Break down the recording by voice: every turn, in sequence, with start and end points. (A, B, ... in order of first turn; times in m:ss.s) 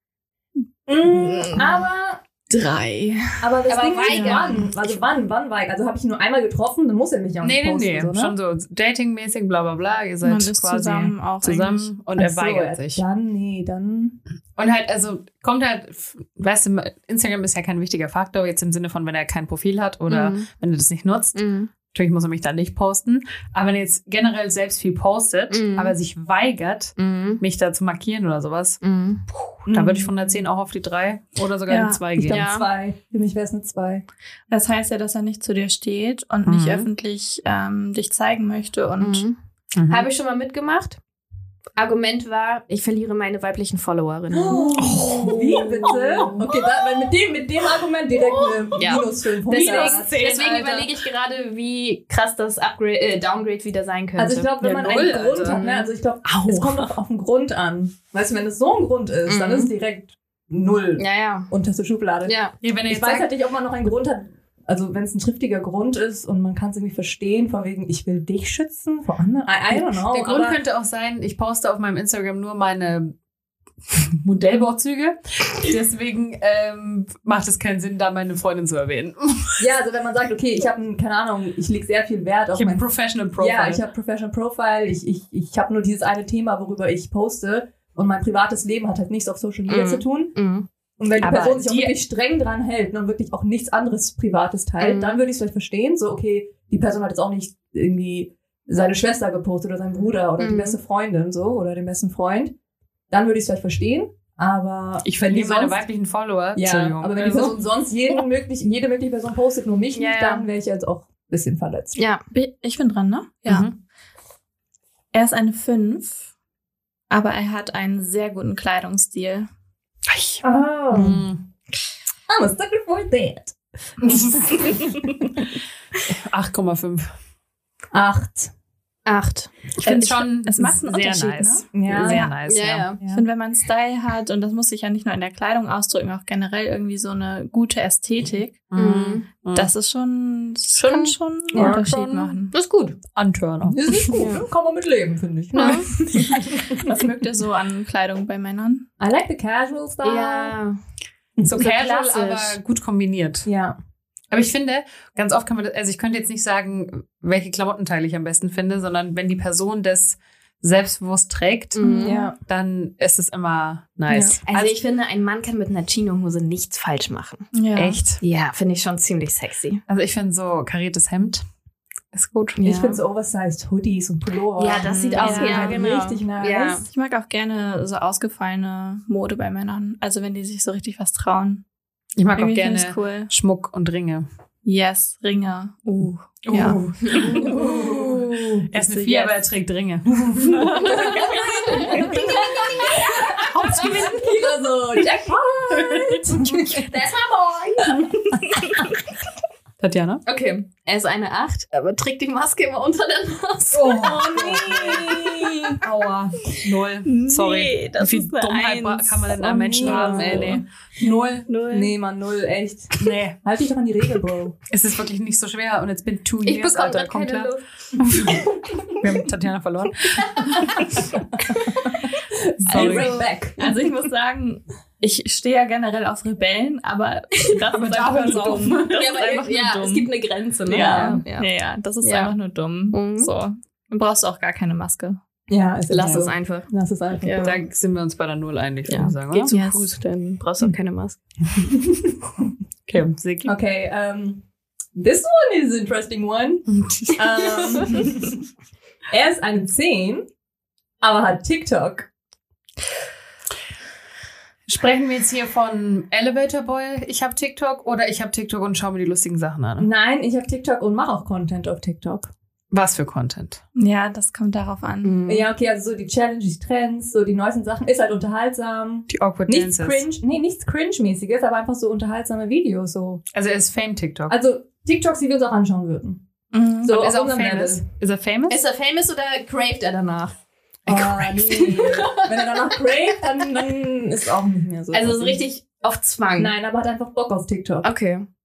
0:00.9-0:02.2 A
0:01.0-0:01.6 B
0:01.0-0:01.6 C
0:02.5-0:03.5 B
0:03.4-0:08.4 A
0:03.7-0:04.9 C
0:04.0-0:04.5 B
0:07.4-0:13.0 D
0:10.2-0:11.9 B
0:12.1-0:14.2 A
0:14.6-0:32.4 D
0:20.1-0:20.5 C
0:21.4-0:21.7 C
0:25.5-0:25.9 C
0:27.0-0:27.4 C
0:28.8-0:29.2 C
0:29.7-0:30.1 A
0:31.7-0:32.0 B
0:32.2-0:34.0 A
0:32.2-0:32.7 C
0:34.5-0:39.2 B
0:36.4-0:36.9 D
0:39.0-0:39.4 C
0:39.8-0:40.0 D
0:39.9-0:41.0 C
0:41.8-0:46.8 C
0:44.3-0:50.2 A
0:44.8-0:45.6 D
0:48.5-0:55.9 C
0:49.5-0:51.0 D
0:54.2-1:02.4 A
0:54.6-0:55.6 D
0:56.2-0:56.9 D
0:59.2-0:59.7 C
1:01.0-1:01.5 C
1:02.2-1:02.5 C
1:02.6-1:03.3 D
1:02.9-1:10.6 A
1:09.8-1:13.1 D
1:13.9-1:19.6 D
1:19.6-1:30.3 A
1:22.5-1:23.8 D
1:29.7-1:30.7 C
1:31.0-1:42.6 A
1:31.2-1:31.9 D
1:34.8-1:35.2 C
1:40.4-1:40.8 C
1:43.1-1:45.8 A
1:45.0-1:47.6 D
1:46.6-1:52.0 A
1:49.9-1:50.4 C
1:52.0-1:52.2 C
1:52.3-1:53.7 B
1:53.4-1:53.7 D
1:55.1-1:56.2 B
1:57.1-1:59.5 B
2:00.1-2:01.4 D
2:00.4-2:01.3 A
2:02.3-2:05.4 A
2:04.0-2:04.7 D
2:06.1-2:07.1 D
2:07.9-2:08.5 A
2:09.1-2:09.5 C
2:09.8-2:12.9 D
2:09.8-2:12.3 B
2:11.7-2:12.2 A
2:12.4-2:13.0 C
2:13.1-2:18.6 B
2:18.7-2:19.7 D
2:18.7-2:19.2 C
2:19.6-2:22.5 B
2:20.7-2:22.4 C
2:21.5-2:21.8 A
2:22.5-2:24.3 D
2:23.6-2:27.0 A
2:24.2-2:24.4 C
2:25.5-2:25.9 C
2:25.6-2:28.9 B
2:29.0-2:30.6 A
2:30.0-2:30.8 C
2:31.4-2:33.5 D
2:31.6-2:32.6 C
2:33.4-2:33.8 A
2:34.3-2:44.8 D
2:41.8-2:42.3 C
2:42.0-2:42.4 A
2:44.1-2:44.4 A
2:44.4-2:47.5 C
2:47.5-2:48.0 B
2:47.7-2:48.2 D
2:48.2-2:49.8 C
2:49.9-2:51.4 D
2:52.1-2:52.6 D
2:52.6-2:53.0 C
2:52.6-2:56.9 A
2:54.6-2:56.8 C
2:55.2-2:55.9 B
2:56.9-3:01.6 B
3:02.2-3:04.2 D
3:02.4-3:03.3 B
3:04.6-3:08.1 B
3:06.4-3:07.6 D
3:07.0-3:08.0 C
3:07.3-3:08.5 A
3:08.7-3:12.1 D
3:08.7-3:09.4 B
3:10.8-3:16.9 A
3:10.9-3:11.2 B
3:11.5-3:14.1 C
3:13.5-3:14.2 D
3:16.5-3:18.4 C
3:17.9-3:18.6 A
3:19.8-3:20.2 D
3:20.2-3:25.7 C
3:23.7-3:31.4 D
3:24.0-3:25.8 A
3:27.0-3:30.6 B
3:29.6-3:34.6 A
3:31.4-3:31.9 B
3:33.0-3:33.4 D
3:34.7-3:41.1 D
3:36.4-3:37.6 C
3:42.3-3:43.8 A
3:42.6-3:43.2 D
3:42.7-3:50.1 B
3:47.7-3:49.1 D
3:48.9-3:51.5 C
3:50.6-3:55.2 B
3:50.7-3:51.2 A
3:52.0-3:52.3 C
3:52.9-3:53.3 C
3:55.5-3:57.6 A
3:55.9-3:56.7 C
3:56.0-3:56.3 D
3:57.2-3:57.5 C
3:57.4-4:00.0 D
3:58.9-4:01.2 C
4:01.6-4:02.2 A
4:02.9-4:03.5 D
4:03.4-4:08.4 A
4:06.7-4:08.0 D
4:09.1-4:10.3 A
4:11.0-4:12.1 A
4:14.7-4:19.9 D
4:19.8-4:22.3 A
4:22.7-4:23.6 D
4:23.8-4:25.2 B
4:25.0-4:25.5 C
4:25.2-4:33.2 A
4:29.1-4:30.1 D
4:33.3-4:34.4 D
4:34.3-4:36.2 A
4:36.5-4:36.9 B
4:36.8-4:37.8 A
4:36.8-4:38.6 D
4:38.5-4:40.4 C
4:40.9-4:45.4 A
4:40.9-4:41.2 D
4:41.4-4:42.7 C
4:44.9-4:46.5 C
4:46.4-4:47.9 A
4:47.8-4:48.3 C